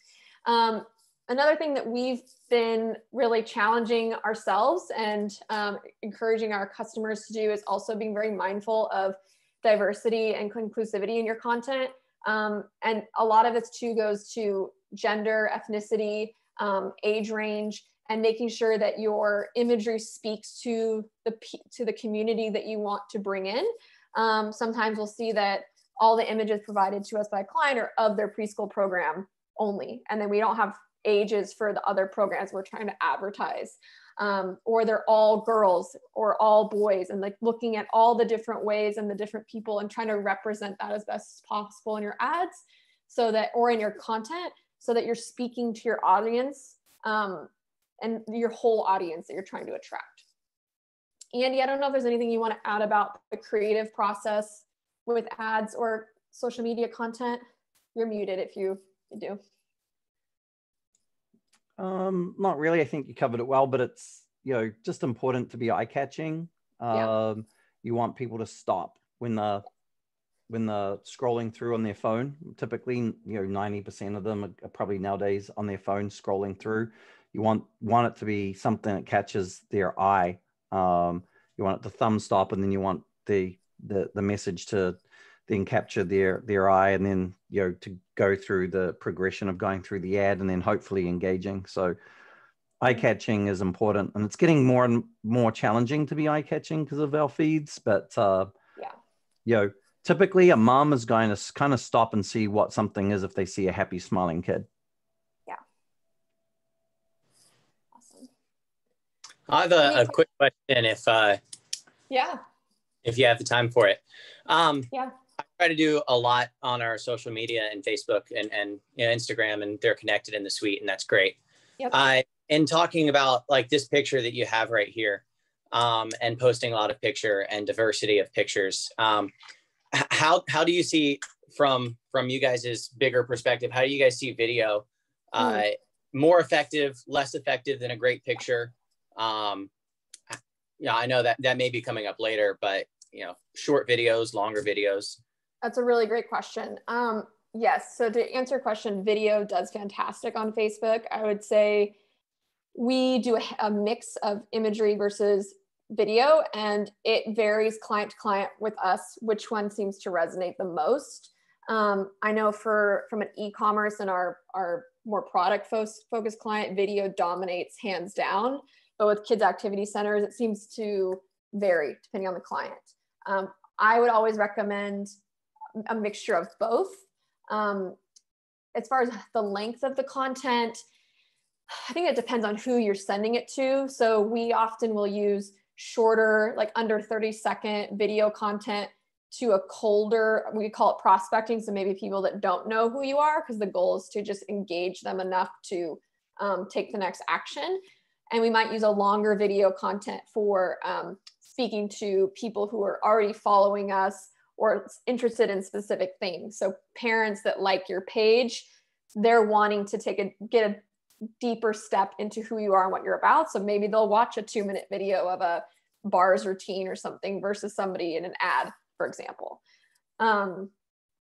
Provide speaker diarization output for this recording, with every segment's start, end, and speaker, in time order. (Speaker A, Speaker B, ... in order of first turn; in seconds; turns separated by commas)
Speaker A: 0.5-50.2, Speaker A: 51.3-57.4, Speaker A: 58.0-59.4, Speaker B: 61.8-69.7, Speaker B: 70.5-85.0, Speaker B: 85.5-92.0, Speaker B: 92.8-98.5, Speaker B: 99.5-104.7, Speaker A: 108.0-108.3, Speaker C: 109.5-111.4, Speaker A: 109.8-110.1, Speaker A: 112.1-112.4, Speaker C: 113.0-114.9, Speaker C: 115.6-121.4, Speaker C: 121.9-129.3, Speaker C: 129.9-139.7, Speaker A: 135.4-135.6, Speaker C: 140.3-145.2, Speaker A: 145.6-151.9, Speaker A: 152.7-175.1, Speaker A: 175.9-178.0, Speaker A: 178.8-180.8, Speaker A: 181.7-210.8, Speaker A: 211.4-219.6, Speaker A: 220.2-220.7